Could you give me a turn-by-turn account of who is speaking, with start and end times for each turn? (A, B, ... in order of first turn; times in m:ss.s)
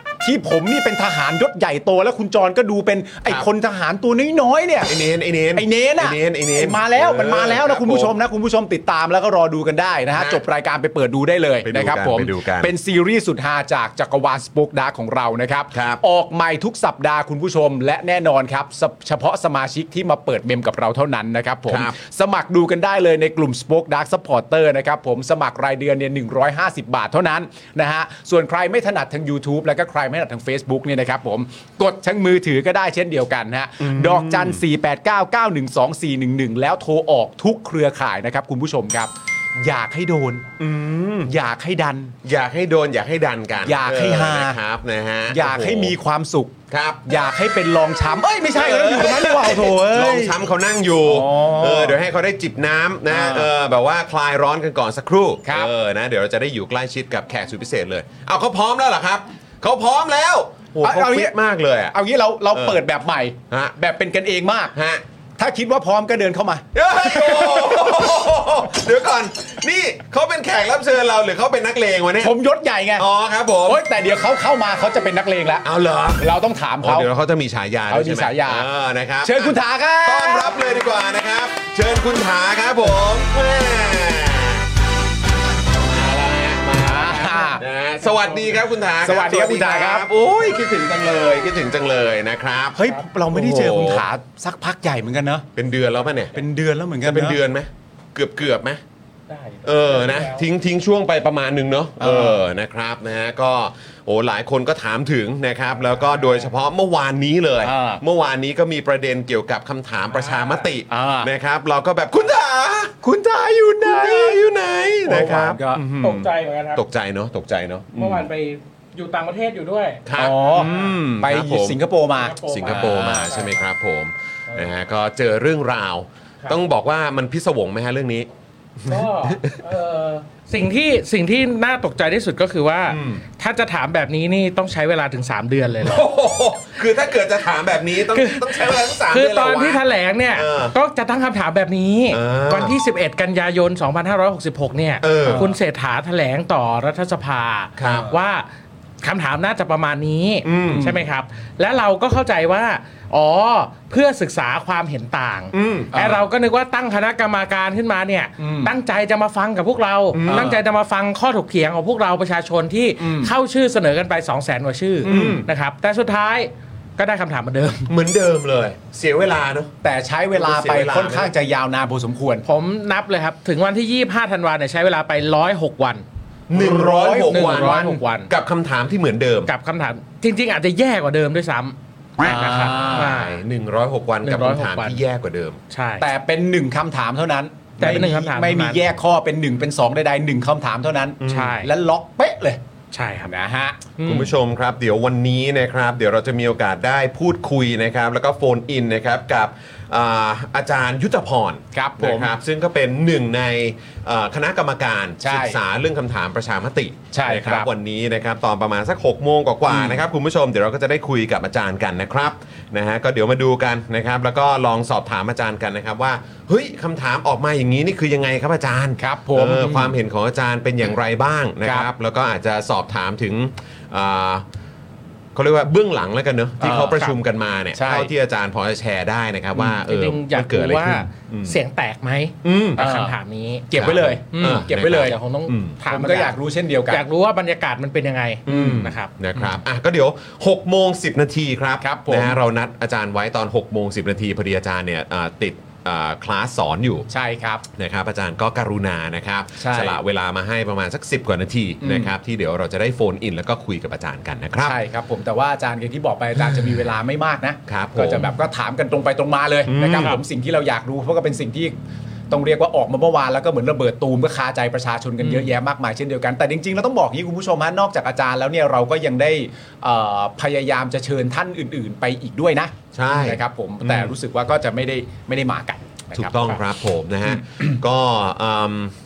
0:00.2-0:04.9 A
0:04.8-0:08.1 B
0:05.5-0:40.5 A
0:10.1-0:10.4 B
0:11.6-0:12.7 B
0:15.7-0:16.0 B
0:21.7-0:21.9 B
0:33.8-0:34.6 B
0:40.6-0:41.3 B
0:41.2-0:42.1 A
0:42.2-0:45.9 B
0:43.6-0:44.6 A
0:45.3-0:50.4 A
0:46.7-0:47.0 B
0:48.5-1:02.0 B
0:51.0-0:52.0 A
0:53.1-0:53.5 A
0:55.4-0:55.7 A
1:00.8-1:01.3 A
1:01.9-1:04.7 A
1:02.5-1:02.8 B
1:04.7-1:05.0 B
1:05.4-1:08.0 A
1:06.7-1:12.3 B
1:12.2-1:13.0 A
1:13.0-1:13.8 B
1:13.6-1:15.6 A
1:15.6-1:24.6 B
1:16.2-1:17.1 A
1:17.9-1:18.7 A
1:19.2-1:20.5 A
1:25.8-1:32.8 B
1:26.8-1:27.6 A
1:29.0-1:30.0 A
1:32.7-1:35.4 A
1:33.3-1:34.0 B
1:35.6-1:36.4 B
1:36.3-1:37.4 A
1:37.0-1:38.8 B
1:39.3-1:40.4 C
1:39.6-1:52.9 B
1:42.0-1:42.4 A
1:47.6-1:48.0 A
1:50.1-1:50.7 C
1:50.9-1:51.3 A
1:53.0-1:54.4 A
1:53.8-1:58.2 B
1:55.0-1:55.8 A
1:56.0-1:56.8 C
1:58.0-2:00.0 C
2:00.0-2:01.8 B
2:00.2-2:03.3 A
2:00.6-2:00.9 C
2:02.2-2:03.6 C
2:02.5-2:08.3 B
2:08.8-2:09.6 B
2:08.9-2:16.1 C
2:12.9-2:13.2 B
2:15.8-2:20.7 B
2:18.0-2:28.4 C
2:22.1-2:22.8 B
2:25.0-2:25.5 B
2:25.2-2:25.5 A
2:27.8-2:28.1 B
2:27.8-2:28.1 A
2:29.0-2:47.9 C
2:30.4-2:30.9 B
2:35.5-2:35.9 B
2:35.9-2:36.2 A
2:38.4-2:38.7 A
2:40.1-2:40.5 B
2:40.3-2:40.6 A
2:43.0-2:43.3 A
2:45.0-2:45.4 A
2:45.0-2:45.5 B
2:47.9-2:49.7 B
2:49.8-2:52.4 A
2:50.3-2:51.3 B
2:52.4-2:56.0 C
2:56.5-2:59.5 B
2:56.5-2:58.0 A
2:57.3-2:58.3 C
2:59.4-3:03.4 C
3:02.2-3:03.1 A
3:02.9-3:05.6 B
3:04.2-3:05.0 C
3:05.7-3:06.0 C
3:06.0-3:12.6 A
3:07.8-3:08.8 C
3:11.2-3:11.6 B
3:11.3-3:11.7 C
3:12.9-3:13.3 C
3:13.2-3:13.8 A
3:14.0-3:14.3 C
3:14.0-3:44.4 B
3:21.7-3:22.3 A
3:25.2-3:25.6 A
3:27.1-3:27.7 A
3:29.7-3:30.0 A
3:39.0-3:39.9 A
3:41.6-3:41.9 A
3:45.3-3:51.6 B
3:46.6-3:47.0 A
3:47.7-3:48.1 A
3:49.6-3:53.7 C
3:52.4-3:52.8 B
3:52.8-3:53.1 A
3:53.7-3:55.2 A
3:53.7-3:55.8 B
3:54.3-3:56.4 C
3:55.9-3:57.0 A
3:56.9-3:59.5 C
3:58.5-4:07.1 B
3:58.5-3:58.8 A
4:01.8-4:02.4 A
4:07.1-4:07.6 A
4:07.8-4:14.8 B
4:09.6-4:10.0 A
4:11.8-4:12.1 A
4:14.6-4:21.7 A
4:17.7-4:18.3 B
4:19.6-4:20.1 B
4:22.3-4:36.5 A
4:25.2-4:25.5 C
4:32.9-4:34.1 B
4:36.1-4:38.9 B